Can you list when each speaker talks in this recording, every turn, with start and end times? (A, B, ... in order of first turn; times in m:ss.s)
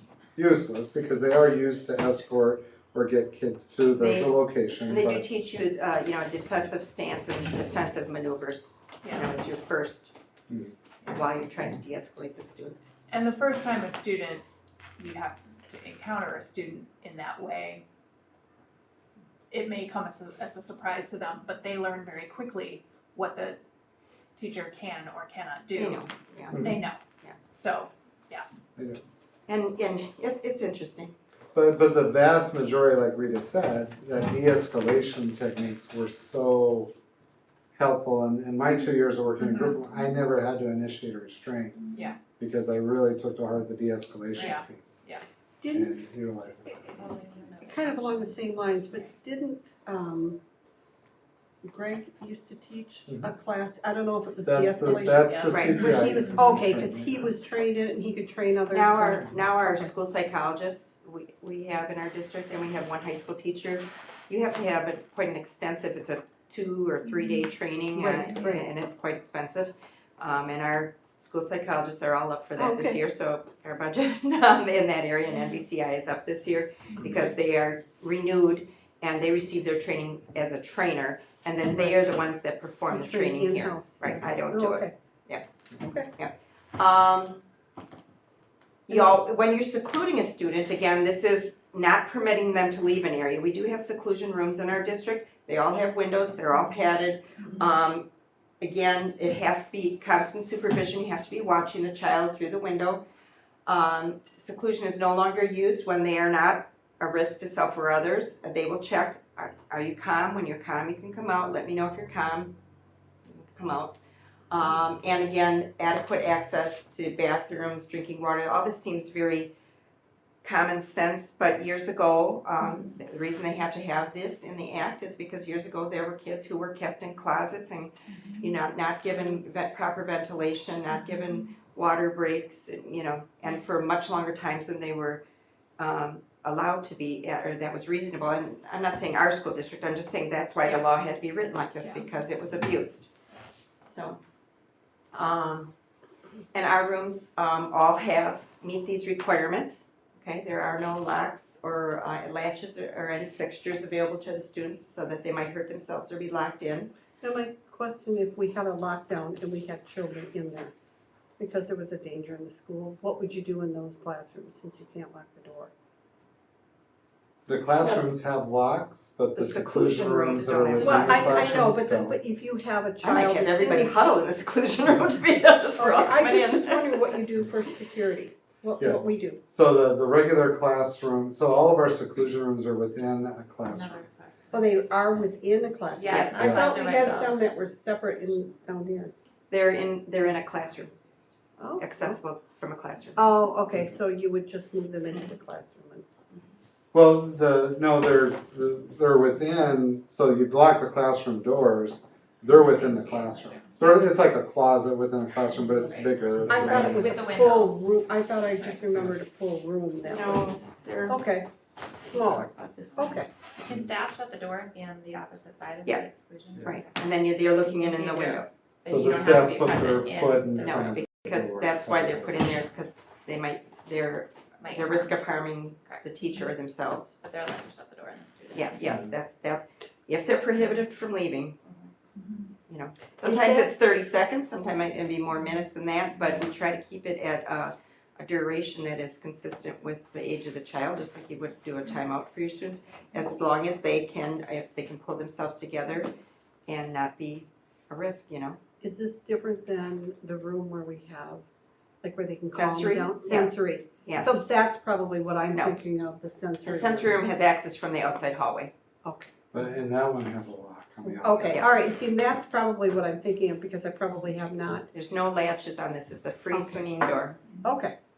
0:00.4-0:05.2 A
0:04.0-0:10.1 B
0:11.0-0:12.8 B
0:13.1-0:14.4 C
0:15.0-0:17.8 C
0:19.5-0:23.6 C
0:24.4-0:26.0 C
0:25.7-0:26.6 B
0:26.5-0:26.8 A
0:26.5-0:27.0 C
0:27.5-0:28.4 C
0:29.5-0:31.1 B
0:31.5-0:36.9 A
0:37.8-0:41.8 A
0:39.4-0:39.7 C
0:42.4-0:45.0 A
0:44.3-0:45.2 C
0:45.6-0:46.1 D
0:45.7-0:47.0 A
0:46.6-0:50.4 D
0:46.9-0:49.1 E
0:51.6-0:59.9 D
0:54.4-0:57.3 A
0:55.2-0:56.6 C
0:55.5-0:55.9 B
0:58.7-1:25.4 B
1:07.9-1:08.7 D
1:12.6-1:13.0 D
1:16.9-1:17.2 C
1:21.7-1:22.1 D
1:22.9-1:24.9 D
1:25.8-1:26.1 D
1:26.1-1:27.4 B
1:28.9-1:38.1 B
1:38.6-1:43.0 B
1:43.6-1:52.6 B
1:53.2-1:54.0 B
1:54.5-1:59.5 B
2:00.4-2:15.2 B
2:08.1-2:08.5 C
2:15.8-2:23.1 B
2:21.8-2:22.1 C
2:23.8-2:24.2 B
2:25.1-2:25.7 B
2:26.5-2:36.9 B
2:37.2-2:40.7 D
2:41.4-2:45.7 D
2:47.5-2:52.2 A
2:49.4-2:51.6 B
2:50.8-2:54.0 D
2:53.0-2:57.2 B
2:55.8-2:59.4 D
2:58.8-3:04.0 A
3:03.6-3:04.8 E
3:04.5-3:09.1 D
3:05.9-3:07.4 E
3:06.1-3:06.5 B
3:06.4-3:06.7 A
3:09.5-3:10.9 B
3:11.6-3:12.2 D
3:11.8-3:13.3 B
3:13.1-3:16.1 D
3:16.9-3:27.3 A
3:22.5-3:23.8 E
3:25.6-3:27.8 E
3:26.5-3:31.5 D
3:28.5-3:28.8 E
3:30.0-3:31.2 B
3:32.0-3:33.3 D
3:32.2-3:32.5 A
3:32.7-3:33.0 B
3:33.0-3:37.0 E
3:36.6-3:38.5 B
3:37.7-3:41.0 E
3:38.8-3:42.6 A
3:40.6-3:47.1 B
3:44.6-3:45.2 E
3:45.8-3:46.5 E
3:47.1-3:49.0 E
3:48.5-3:51.6 B
3:48.9-3:49.1 A
3:51.6-3:51.9 E
3:52.1-3:52.5 C
3:52.7-4:06.1 B
3:53.2-3:53.7 D
4:06.7-4:08.6 B
4:08.8-4:11.4 D
4:12.0-4:17.4 D
4:12.5-4:14.5 B
4:15.5-4:15.8 B
4:16.6-4:18.7 B
4:19.0-4:19.3 D
4:19.5-4:21.6 A
4:21.0-4:24.9 D
4:21.3-4:21.7 B
4:24.9-4:27.4 B
4:26.5-4:26.8 D
4:27.6-4:27.9 D